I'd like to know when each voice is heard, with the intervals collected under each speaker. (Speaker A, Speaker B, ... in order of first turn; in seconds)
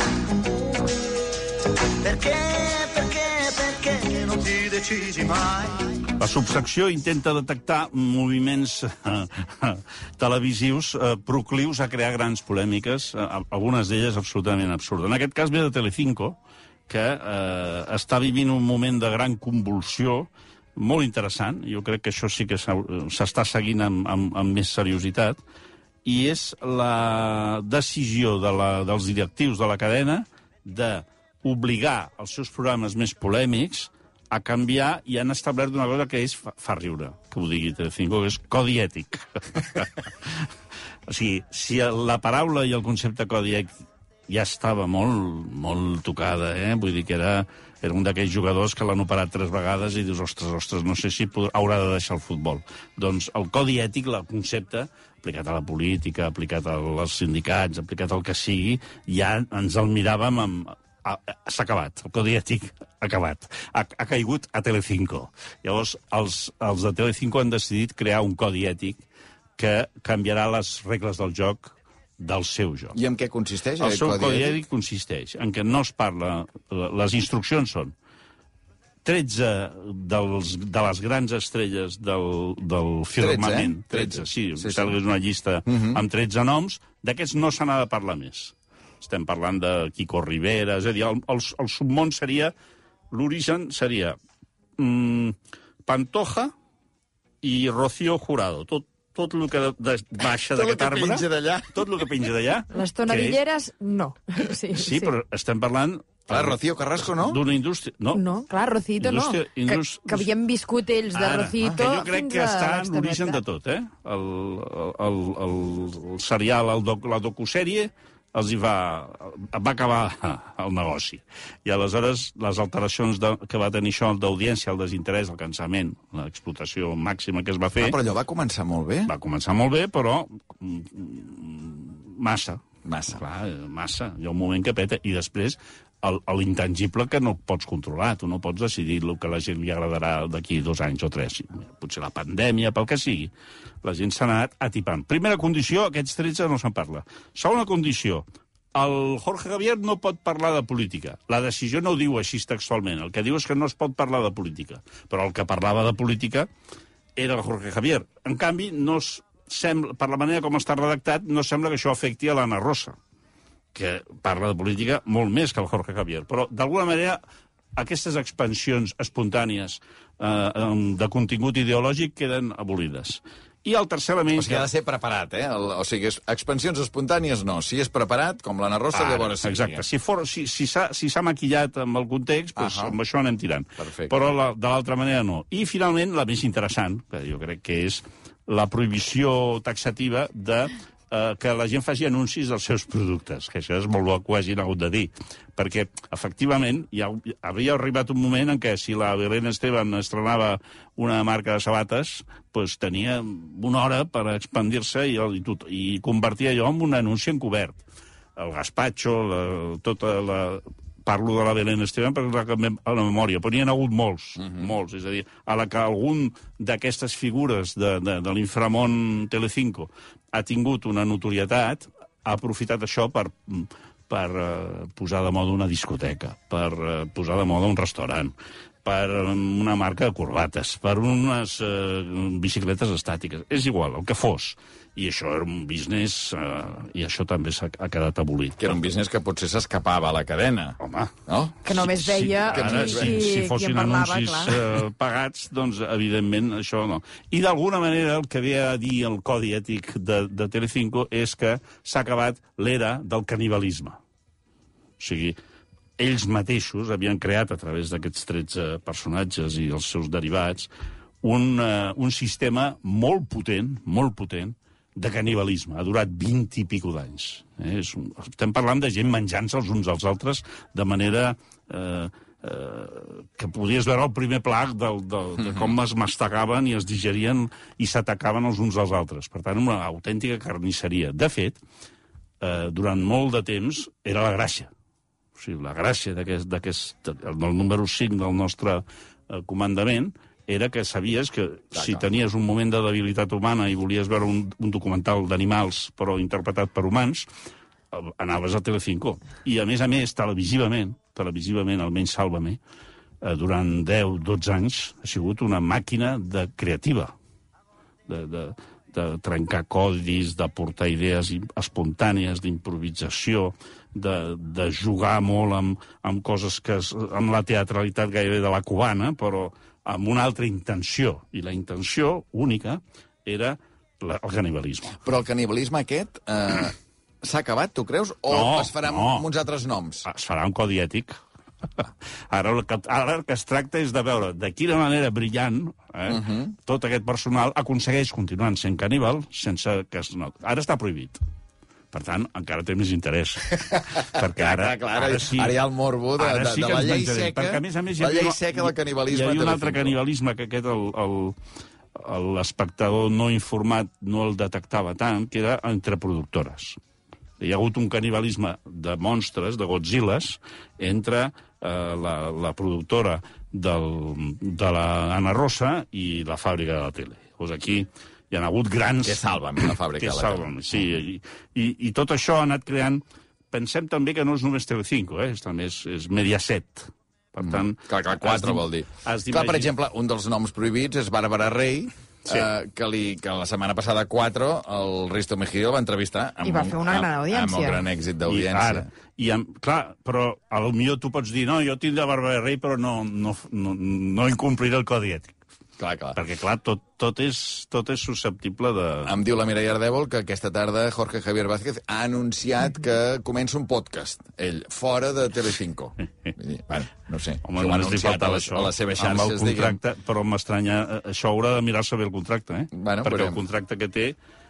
Speaker A: 2.0-5.8, 72.9-74.6, 83.2-85.0, 85.7-86.0, 100.5-101.9, 106.3-107.4, 127.8-129.1, 132.8-133.2, 174.3-179.8, 182.6-182.9, 183.8-184.2, 214.4-214.7, 238.6-241.6, 242.5-243.3, 275.4-275.7, 291.7-292.0, 325.0-330.1, 336.1-336.5, 343.7-350.0, 369.0-370.8, 377.4-388.9, 395.8-396.2, 399.1-409.8, 412.7-413.4
Speaker B: 6.1-25.4, 26.1-40.5, 41.1-43.7, 44.3-69.0, 69.6-73.0, 73.8-77.9, 79.0-92.5, 93.1-94.2, 94.8-96.5, 97.4-103.4, 104.7-108.2, 109.0-110.3, 111.1-128.0, 129.1-143.3, 143.8-156.5, 157.2-162.9, 163.7-167.2, 167.8-174.7, 178.9-207.8, 208.4-228.3, 228.8-238.8, 240.8-241.1, 241.7-254.0, 255.0-255.4, 256.0-260.7, 261.2-281.6, 282.4-284.7, 285.4-297.3, 297.9-302.6, 303.2-307.1, 308.1-325.0, 328.3-329.3, 330.0-331.2, 331.8-341.2, 341.9-345.6, 346.2-351.4, 351.9-356.8, 357.4-379.7, 388.3-395.4, 396.1-399.1, 407.4-414.1
Speaker C: 102.7-105.1, 108.1-113.4, 241.6-244.6, 386.4-387.8